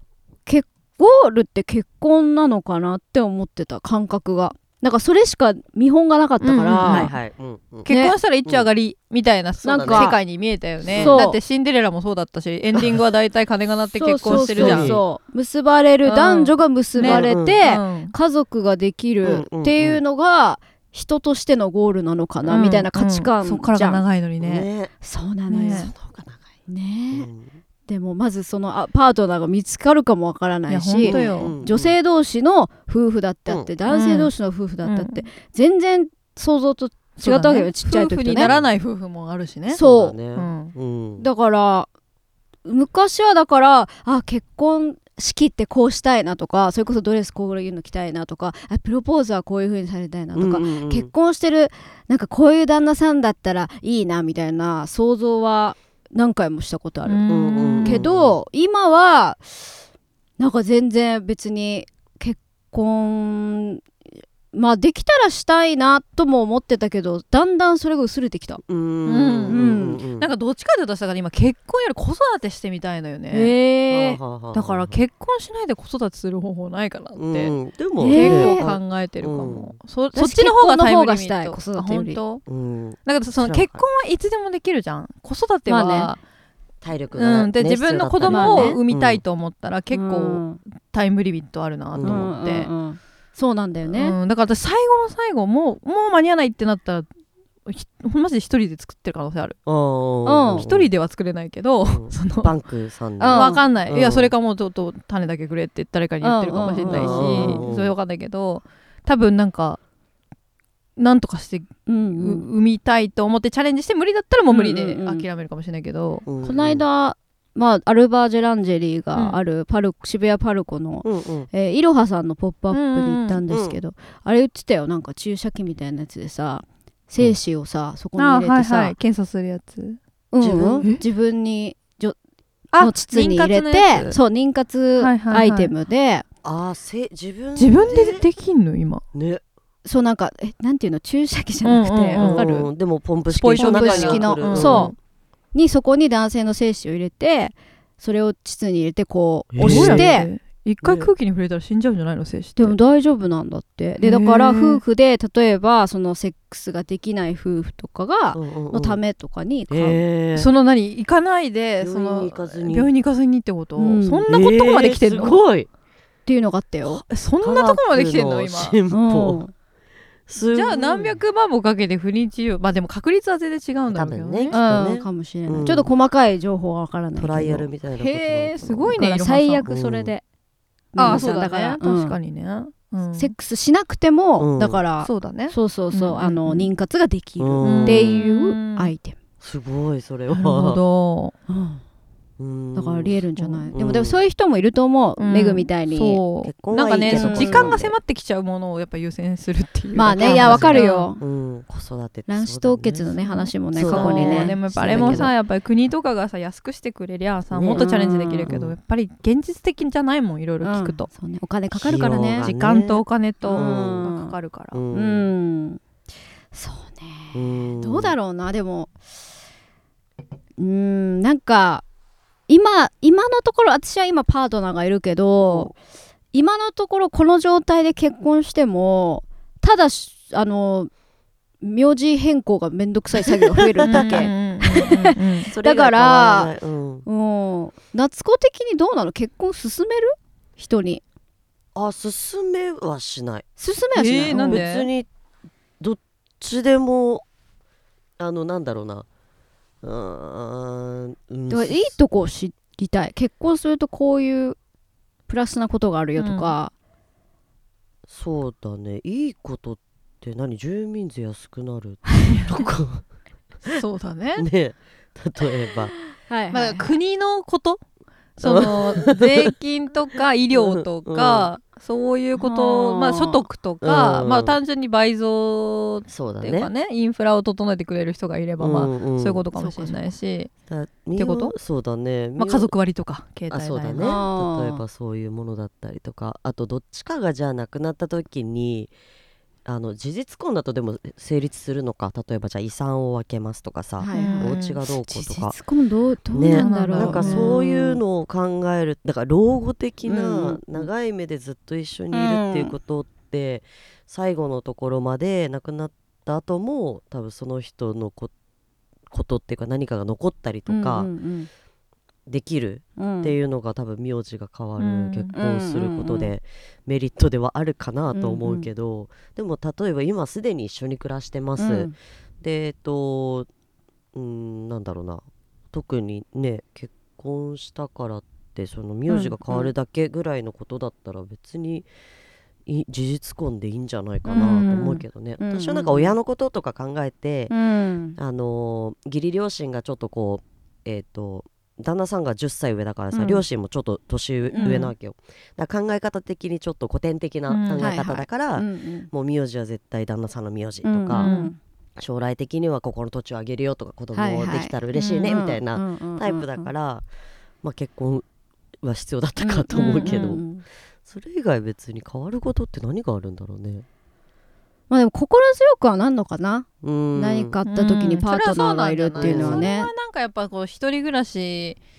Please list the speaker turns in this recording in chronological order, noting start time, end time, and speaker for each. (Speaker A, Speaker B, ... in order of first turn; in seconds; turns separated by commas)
Speaker A: 0.5-7.1, Speaker B: 6.4-7.2, Speaker C: 6.8-7.9, Speaker B: 7.8-15.0, Speaker A: 7.8-8.1, Speaker C: 9.6-10.1, Speaker A: 9.6-10.2, Speaker C: 10.8-11.2, Speaker A: 10.9-11.4, Speaker A: 13.9-24.0, Speaker C: 14.3-15.0, Speaker B: 16.0-18.1, Speaker C: 17.0-17.6, Speaker C: 19.2-20.0, Speaker B: 22.5-24.7, Speaker C: 24.4-24.9, Speaker A: 25.0-25.9, Speaker B: 25.5-25.9, Speaker C: 25.6-26.5, Speaker A: 26.7-27.3, Speaker C: 27.1-27.6, Speaker A: 27.9-38.5, Speaker B: 30.7-31.6, Speaker C: 31.0-31.9, Speaker B: 33.9-35.2, Speaker B: 37.2-39.8, Speaker C: 38.4-38.7, Speaker A: 39.7-40.2, Speaker C: 39.7-41.3, Speaker B: 40.3-40.7, Speaker A: 41.2-41.9, Speaker A: 42.6-57.3, Speaker C: 50.3-51.1, Speaker B: 57.0-58.0, Speaker C: 57.3-58.4, Speaker A: 57.8-59.8, Speaker A: 60.4-63.8, Speaker A: 64.5-68.6, Speaker C: 68.7-70.3, Speaker B: 69.0-73.5, Speaker A: 69.5-70.0, Speaker A: 73.3-74.2, Speaker C: 73.9-75.0, Speaker B: 74.5-82.4, Speaker C: 77.2-79.8, Speaker A: 78.0-78.7, Speaker A: 80.1-82.2, Speaker C: 82.5-83.8, Speaker B: 83.0-86.2, Speaker A: 85.7-86.1, Speaker C: 86.8-89.2, Speaker B: 87.1-92.7, Speaker A: 88.2-88.8, Speaker A: 89.9-90.6, Speaker C: 91.9-92.3, Speaker A: 92.0-94.2, Speaker B: 93.9-97.1, Speaker B: 97.7-99.6, Speaker C: 99.7-100.9, Speaker A: 100.2-100.7, Speaker B: 100.5-102.5, Speaker C: 101.8-104.3, Speaker A: 103.2-103.6, Speaker B: 103.3-109.8, Speaker A: 106.2-107.7, Speaker C: 106.8-107.9, Speaker B: 111.0-116.2, Speaker A: 111.9-112.4, Speaker A: 114.5-115.2, Speaker C: 116.2-116.8, Speaker A: 116.4-128.9, Speaker B: 119.1-119.4, Speaker C: 121.0-121.5, Speaker B: 122.7-123.4, Speaker C: 123.5-123.8, Speaker B: 128.2-130.0, Speaker A: 130.3-132.2, Speaker C: 130.4-130.8, Speaker B: 132.7-134.2, Speaker A: 132.8-136.2, Speaker B: 135.0-135.7, Speaker C: 136.4-138.3, Speaker B: 137.6-139.0, Speaker C: 139.1-139.4, Speaker A: 139.8-142.6, Speaker B: 141.6-142.7, Speaker C: 142.1-144.9, Speaker B: 143.3-144.9, Speaker A: 143.6-144.9, Speaker A: 145.5-150.3, Speaker C: 149.5-150.1, Speaker B: 149.6-152.8, Speaker C: 150.8-151.1, Speaker A: 152.6-160.0, Speaker B: 154.0-154.8, Speaker C: 158.3-159.0, Speaker C: 159.7-160.5, Speaker B: 160.3-165.4, Speaker C: 161.8-162.9, Speaker A: 163.8-164.2, Speaker C: 164.3-165.7, Speaker A: 166.2-167.0, Speaker B: 166.8-168.8, Speaker C: 167.4-169.4, Speaker A: 168.9-169.5, Speaker C: 170.3-171.2, Speaker B: 170.4-174.6, Speaker C: 173.9-175.9, Speaker A: 174.5-180.2, Speaker C: 177.2-179.0, Speaker B: 178.6-179.7, Speaker C: 179.7-180.1, Speaker A: 180.9-182.2, Speaker B: 180.9-183.3, Speaker A: 183.1-189.2, Speaker C: 184.4-184.8, Speaker B: 185.0-186.7, Speaker C: 187.4-188.2, Speaker B: 187.6-188.9, Speaker C: 189.4-190.8, Speaker B: 190.3-191.3, Speaker A: 191.5-191.8, Speaker C: 192.4-193.2, Speaker A: 192.7-196.2, Speaker B: 193.3-193.7, Speaker C: 193.7-194.2, Speaker B: 195.2-201.1, Speaker C: 196.4-197.9, Speaker A: 197.1-197.8, Speaker A: 199.9-201.2, Speaker C: 200.2-203.2, Speaker A: 202.3-205.3, Speaker B: 203.2-211.1, Speaker C: 203.7-205.3, Speaker C: 207.5-207.8, Speaker A: 207.7-208.5, Speaker C: 208.5-208.8, Speaker A: 210.6-212.5, Speaker C: 211.7-214.1, Speaker B: 212.2-214.8, Speaker A: 213.4-214.3, Speaker C: 214.7-215.3, Speaker A: 214.9-215.8, Speaker A: 216.5-218.9, Speaker C: 217.3-218.2, Speaker A: 220.6-221.8, Speaker A: 222.5-225.7, Speaker C: 225.4-225.7, Speaker A: 226.3-230.9, Speaker A: 231.6-236.5, Speaker C: 233.6-234.3, Speaker B: 233.8-235.5, Speaker C: 235.5-237.1, Speaker A: 237.1-241.0, Speaker C: 241.7-243.5, Speaker A: 243.6-244.6, Speaker B: 243.9-244.9, Speaker C: 244.3-245.1, Speaker C: 245.8-247.2, Speaker C: 248.2-249.1, Speaker C: 249.8-251.9, Speaker A: 251.5-254.6, Speaker A: 255.3-256.7, Speaker B: 256.2-256.5, Speaker C: 258.1-263.0, Speaker B: 262.3-262.6, Speaker B: 263.7-264.4, Speaker C: 264.4-265.9, Speaker A: 266.3-266.9, Speaker B: 266.5-267.8, Speaker B: 268.4-280.5, Speaker C: 268.4-269.5, Speaker C: 270.5-271.5, Speaker A: 272.3-273.4, Speaker C: 273.8-274.6, Speaker C: 276.1-276.7, Speaker C: 278.6-279.4, Speaker A: 279.5-280.1, Speaker C: 280.7-282.7, Speaker B: 281.1-281.6, Speaker B: 282.4-284.1, Speaker C: 283.5-288.9, Speaker A: 284.0-284.8, Speaker C: 289.6-295.6, Speaker A: 294.0-298.0, Speaker B: 294.1-294.8, Speaker C: 296.3-308.3, Speaker B: 296.4-297.6, Speaker A: 300.1-300.9, Speaker A: 302.1-302.7, Speaker C: 309.1-311.1, Speaker A: 310.7-311.5, Speaker C: 312.3-323.5, Speaker A: 313.0-313.4, Speaker B: 314.8-315.3, Speaker A: 315.3-316.3, Speaker A: 318.1-318.7, Speaker A: 321.6-321.9, Speaker C: 324.1-331.9, Speaker C: 332.6-337.5, Speaker A: 334.2-336.2, Speaker A: 337.5-338.2, Speaker C: 338.2-351.3, Speaker A: 343.1-343.4, Speaker A: 344.5-344.9, Speaker B: 347.5-347.9, Speaker A: 347.8-349.1, Speaker A: 350.8-351.6, Speaker B: 351.1-351.5, Speaker C: 352.0-357.1, Speaker A: 354.1-356.7, Speaker B: 354.9-355.4, Speaker C: 357.6-358.2, Speaker C: 358.8-360.5, Speaker A: 359.4-360.6, Speaker B: 359.9-360.2, Speaker C: 361.0-363.9, Speaker A: 364.9-369.9, Speaker C: 366.8-367.5, Speaker B: 367.6-371.8, Speaker C: 369.2-369.6